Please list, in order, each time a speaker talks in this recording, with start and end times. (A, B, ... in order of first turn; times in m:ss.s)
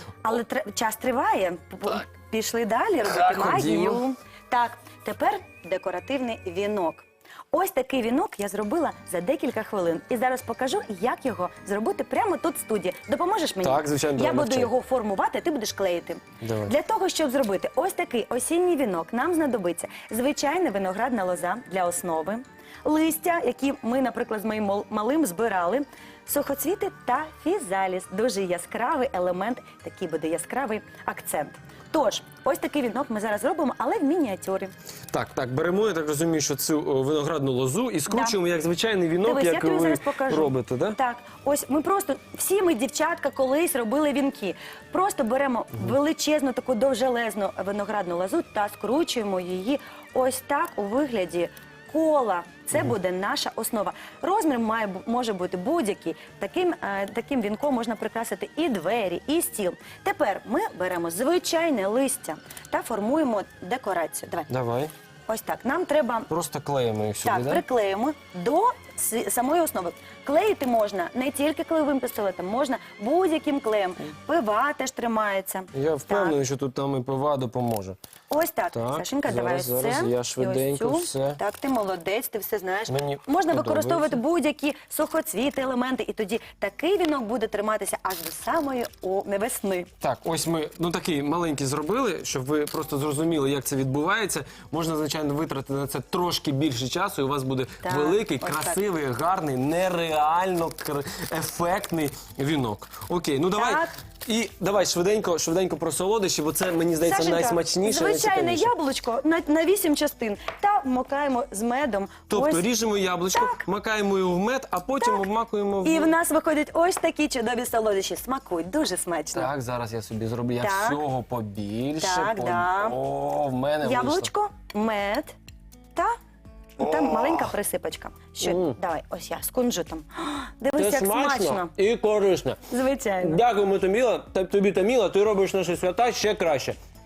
0:00.2-0:34.7 A
0:03.0-0:04.0 B
0:13.6-0:14.7 B
0:16.4-0:16.7 B
0:35.1-0:41.0 B
0:38.1-0:38.4 A
0:39.2-1:04.5 A
1:04.5-1:04.9 B
1:05.3-1:06.3 A
1:06.3-1:07.6 B
1:07.2-1:16.4 A
1:15.7-1:18.0 B
1:18.3-1:29.9 A
1:18.7-1:21.4 B
1:22.9-1:24.2 B
1:30.0-1:48.7 B
1:37.8-1:38.8 A
1:43.6-1:43.9 A
1:47.0-1:52.7 A
1:52.3-1:56.1 B
1:53.3-1:53.6 A
1:55.8-1:59.5 A
1:59.3-2:04.3 B
2:00.6-2:01.0 A
2:02.0-2:03.0 A
2:03.8-2:05.3 A
2:06.8-2:11.7 A
2:06.8-2:07.4 B
2:08.4-2:08.8 B
2:10.8-2:12.6 B
2:12.7-2:13.4 A
2:13.2-2:16.8 B